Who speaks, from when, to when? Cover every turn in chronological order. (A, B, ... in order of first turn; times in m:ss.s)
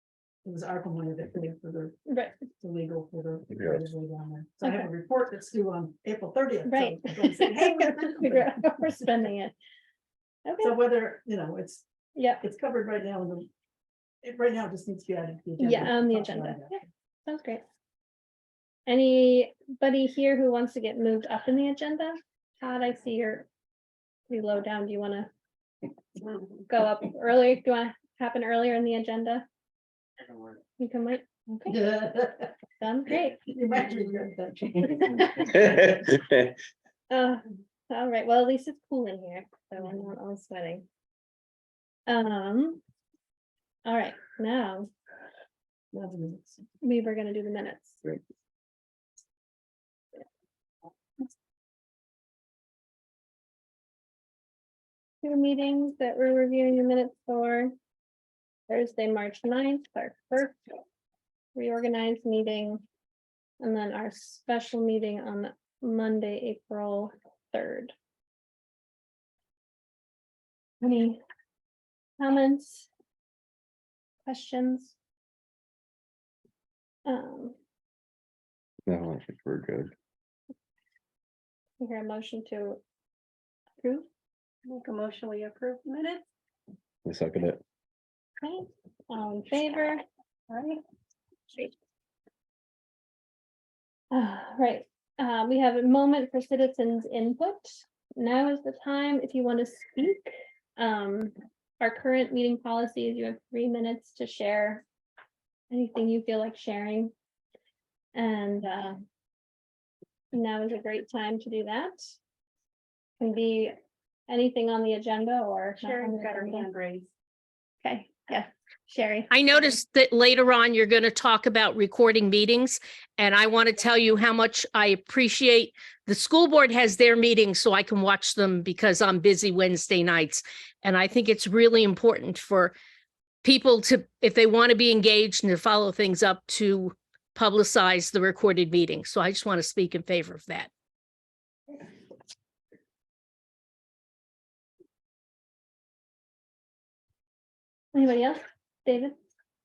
0:00.4-0:09.3 A
0:02.0-0:02.4 B
0:03.5-0:03.8 C
0:04.6-0:04.9 B
0:06.6-0:09.5 B
0:10.4-0:10.8 B
0:10.6-0:11.8 A
0:12.1-0:12.4 B
0:12.4-0:13.5 A
0:14.2-0:16.8 A
0:15.6-0:17.6 B
0:18.9-0:23.5 B
0:24.3-0:25.3 B
0:26.7-0:29.4 B
0:30.8-0:31.8 B
0:31.7-0:32.6 A
0:32.8-0:33.5 B
0:33.5-0:36.0 A
0:35.0-0:35.6 B
0:36.1-0:36.4 C
0:37.1-0:40.8 B
0:42.1-0:42.8 B
0:43.8-0:44.9 B
0:45.9-0:46.7 A
0:46.8-0:48.0 B
0:55.2-0:57.7 B
0:58.7-1:00.6 B
1:01.5-1:02.8 B
1:03.6-1:07.9 B
1:10.8-1:11.2 B
1:12.2-1:12.8 B
1:14.2-1:14.9 B
1:17.0-1:17.6 B
1:18.8-1:19.9 C
1:21.8-1:22.8 B
1:23.8-1:24.1 B
1:24.7-1:26.2 D
1:27.0-1:27.6 C
1:28.4-1:30.0 B
1:30.5-1:30.8 D
1:34.1-1:44.8 B
1:45.7-1:47.1 B
1:48.1-1:49.0 B
1:50.3-1:52.1 B
1:53.2-1:53.7 B
1:54.3-1:56.7 B
1:55.8-1:57.1 D
1:57.8-1:59.3 B
1:59.3-2:12.8 E
2:13.4-2:20.7 E
2:27.9-2:29.2 B